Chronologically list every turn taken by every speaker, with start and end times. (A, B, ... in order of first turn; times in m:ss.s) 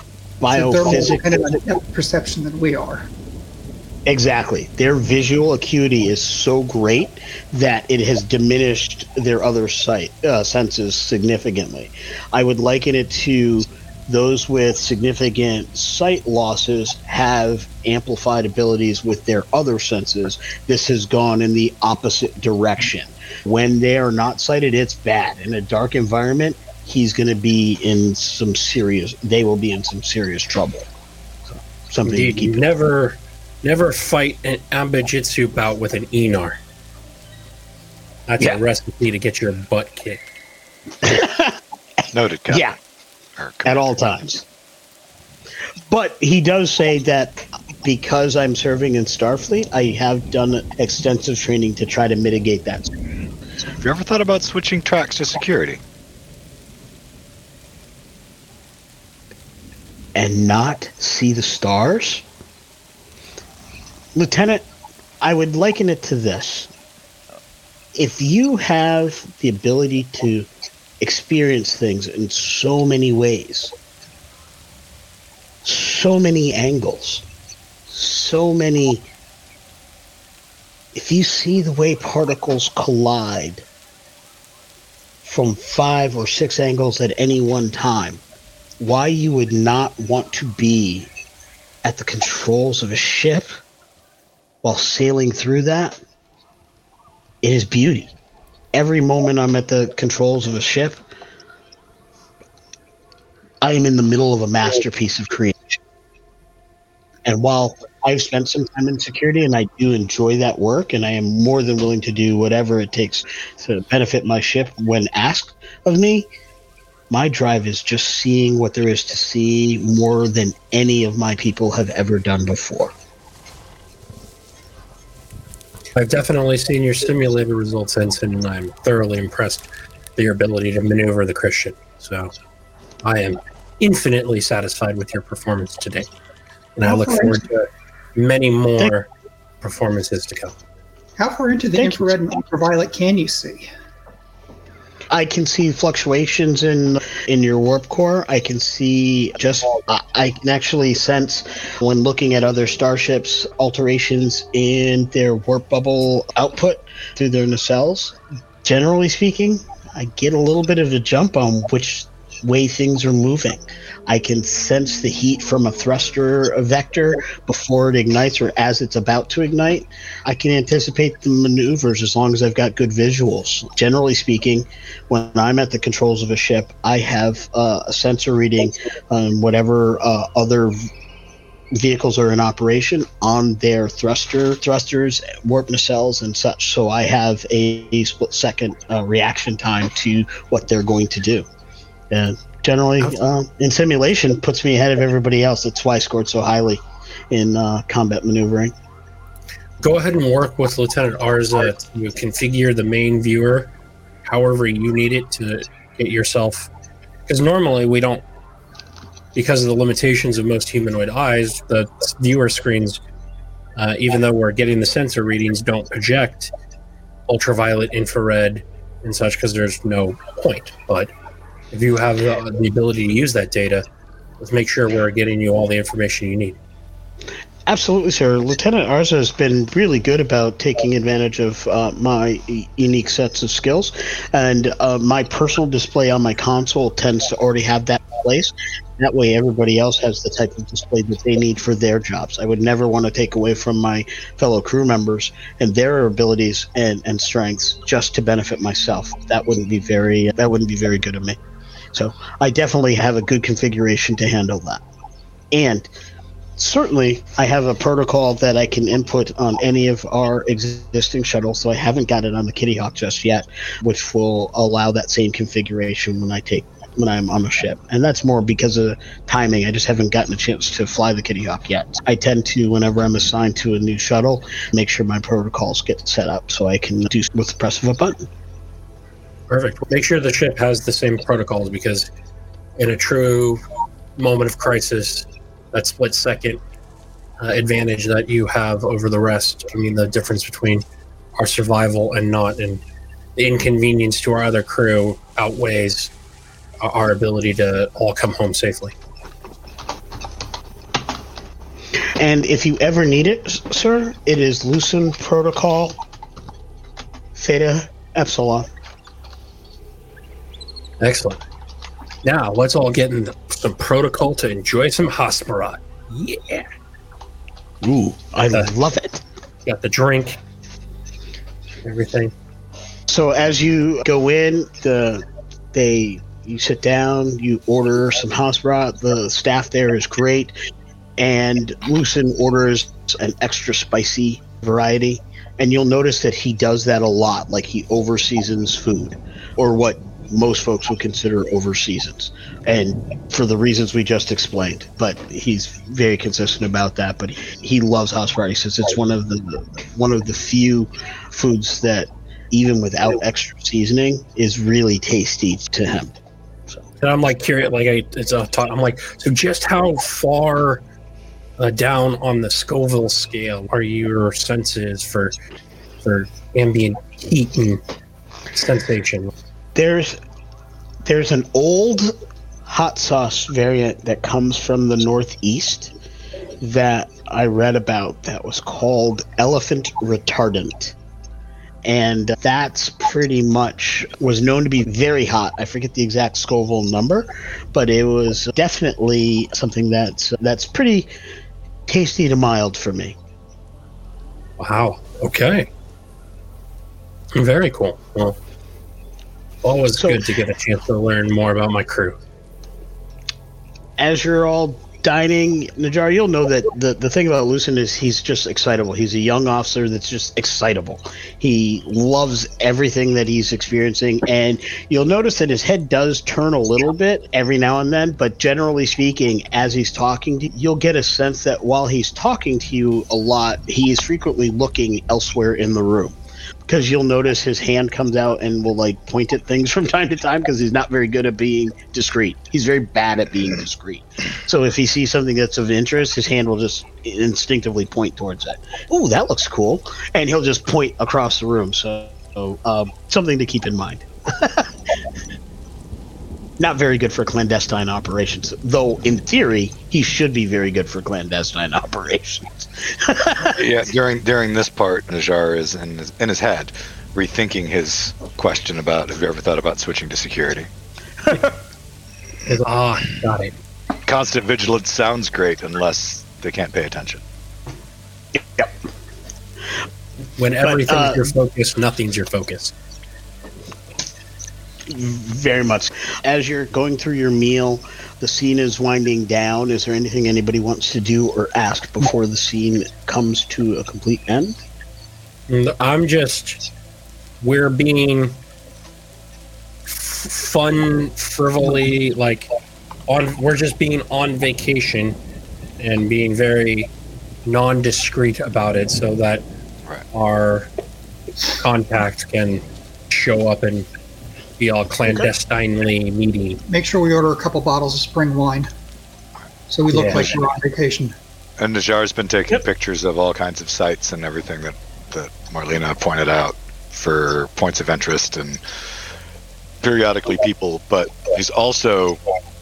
0:00.4-0:01.4 A
0:00.5-0:03.1 B
0:04.0-0:30.9 A
0:31.4-0:32.6 A
0:32.0-0:36.6 C
0:38.3-0:40.2 C
0:41.0-0:41.6 A
0:42.1-0:42.8 D
0:42.5-0:42.8 A
0:43.4-0:43.9 D
0:43.6-0:44.4 A
0:45.9-0:53.0 A
0:53.8-0:55.8 D
1:00.1-1:02.2 A
1:04.1-1:04.7 A
1:05.2-1:06.7 A
1:07.9-1:10.5 A
1:11.0-1:13.7 A
1:15.6-1:17.2 A
1:17.9-1:19.1 A
1:20.9-1:23.6 A
1:25.2-1:28.2 A
1:28.8-1:31.1 A
1:31.8-1:33.6 A
1:34.6-1:36.0 A
1:37.4-1:38.1 A
1:38.7-1:41.0 A
1:43.6-1:45.8 A
1:47.2-1:56.3 A
1:57.1-2:02.9 A
2:06.0-2:12.3 C
2:13.0-2:16.1 C
2:16.8-2:19.1 C
2:16.8-2:17.4 B
2:19.6-2:20.6 C
2:21.2-2:23.7 B
2:21.8-2:22.0 A
2:25.1-3:00.8 A
3:01.7-3:11.4 A
3:12.1-3:18.7 A
3:19.8-3:23.7 C
3:24.3-3:26.7 C
3:27.3-3:28.2 C
3:29.3-3:33.0 C
3:33.8-3:36.5 C
3:37.3-3:41.1 C
3:41.7-3:43.8 C
3:44.4-3:46.6 C
3:47.7-4:11.4 A
4:11.9-4:14.8 A
4:15.5-4:15.9 A
4:16.6-4:38.3 A
4:39.5-4:42.1 C
4:42.8-4:43.6 C
4:44.2-4:46.6 C
4:47.4-4:50.8 C
4:51.4-4:52.8 C
4:53.4-4:56.1 C
4:56.8-4:58.9 C
5:02.2-5:06.0 A
5:07.3-5:08.7 A
5:11.0-5:11.4 C
5:12.2-5:16.6 C
5:17.8-5:19.2 A
5:19.6-5:20.4 C
5:21.8-5:22.3 C
5:23.1-5:30.5 A
5:31.2-5:56.8 A
5:57.0-6:00.8 C
6:01.6-6:05.3 C
6:06.0-6:07.8 C
6:08.5-6:09.3 C
6:09.7-6:10.2 A
6:11.0-6:15.9 A
6:16.6-6:21.0 A
6:21.8-6:31.1 A
6:31.8-6:33.2 A
6:34.6-6:35.7 C
6:37.3-6:38.4 C
6:39.6-6:42.2 C
6:39.9-6:40.2 A
6:44.0-7:06.2 A
7:06.7-7:24.8 A
7:26.6-7:33.6 A
7:33.4-7:40.7 D
7:42.4-7:43.5 C
7:44.0-7:47.2 D
7:48.3-7:48.7 A
7:50.4-7:52.7 C
7:50.6-7:51.3 A
7:54.9-8:04.6 A
8:05.5-8:06.6 C
8:07.4-8:08.4 C
8:09.8-8:12.5 C
8:13.1-8:15.2 C
8:15.8-8:16.9 C
8:17.4-8:19.4 C
8:20.1-8:20.7 C
8:21.5-8:23.9 C
8:24.6-8:26.6 C
8:26.7-8:28.7 B
8:29.7-8:31.1 B
8:29.9-8:30.3 C
8:31.6-8:38.6 D
8:39.8-8:42.2 D